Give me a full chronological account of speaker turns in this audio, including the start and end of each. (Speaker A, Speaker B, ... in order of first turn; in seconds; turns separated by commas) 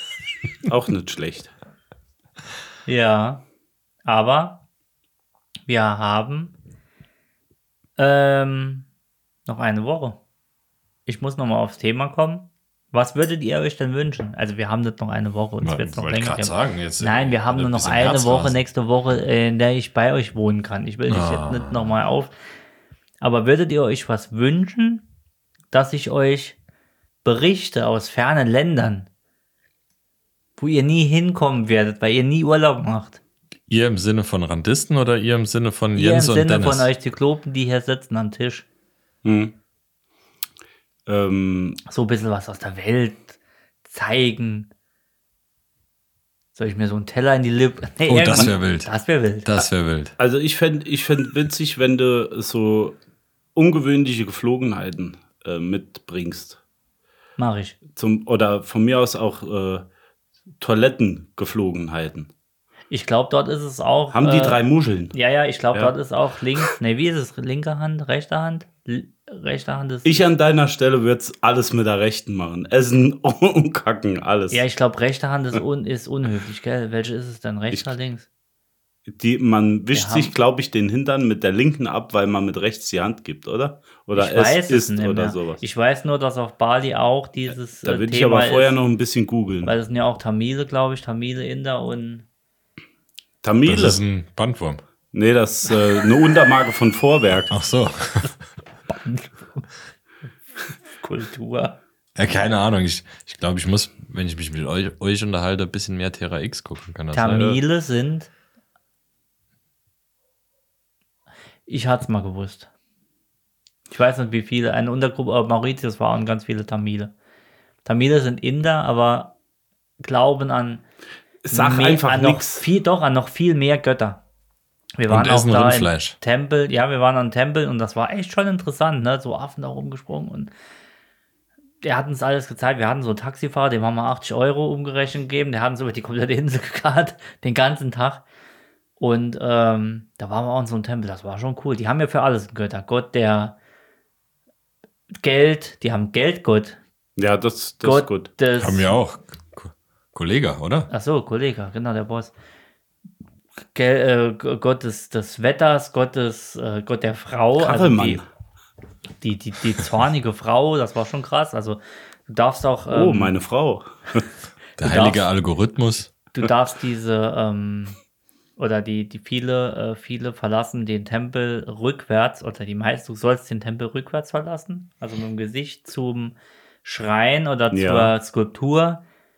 Speaker A: 0.7-1.5, Speaker B: 2.9-3.4, Speaker B: 4.0-4.6, Speaker B: 5.7-6.5, Speaker B: 8.0-8.9, Speaker B: 9.5-10.2, Speaker B: 11.1-22.3, Speaker C: 15.6-18.6, Speaker C: 21.1-21.9, Speaker B: 23.2-25.1, Speaker B: 25.7-26.6, Speaker B: 27.2-29.1, Speaker B: 30.6-33.2, Speaker C: 33.7-36.9, Speaker B: 36.0-38.6, Speaker A: 39.2-39.5, Speaker A: 41.1-41.8, Speaker B: 41.9-44.7, Speaker B: 46.5-49.6, Speaker C: 48.1-48.9, Speaker C: 49.4-50.1, Speaker A: 50.2-53.0, Speaker A: 53.5-56.6, Speaker B: 57.4-57.8, Speaker A: 57.9-59.8, Speaker A: 60.6-62.3, Speaker B: 62.9-64.6, Speaker A: 64.1-65.2, Speaker B: 65.1-70.2, Speaker A: 70.0-74.6, Speaker B: 74.5-78.3, Speaker A: 79.1-85.6, Speaker B: 79.9-80.3, Speaker B: 84.1-88.8, Speaker A: 87.8-89.7, Speaker B: 89.7-92.3, Speaker A: 93.4-94.0, Speaker C: 93.7-94.8, Speaker A: 95.1-97.5, Speaker C: 97.5-98.3, Speaker B: 98.9-99.7, Speaker B: 100.9-101.8, Speaker C: 102.2-107.6, Speaker B: 107.1-108.3, Speaker B: 111.7-112.7, Speaker B: 113.9-117.1, Speaker B: 117.8-119.3, Speaker B: 120.0-120.8, Speaker A: 121.5-122.7, Speaker B: 121.5-124.2, Speaker B: 125.0-130.5, Speaker C: 125.1-126.2, Speaker B: 131.8-138.2, Speaker B: 139.0-143.6, Speaker B: 145.2-146.8, Speaker A: 147.2-148.3, Speaker B: 147.8-148.9, Speaker C: 148.6-150.9, Speaker B: 150.9-152.3, Speaker B: 153.7-158.2, Speaker A: 157.6-158.2, Speaker B: 159.2-163.3, Speaker A: 162.9-164.2, Speaker C: 164.8-166.1, Speaker B: 164.8-165.2, Speaker B: 166.3-168.0, Speaker B: 168.6-179.0, Speaker A: 177.7-178.1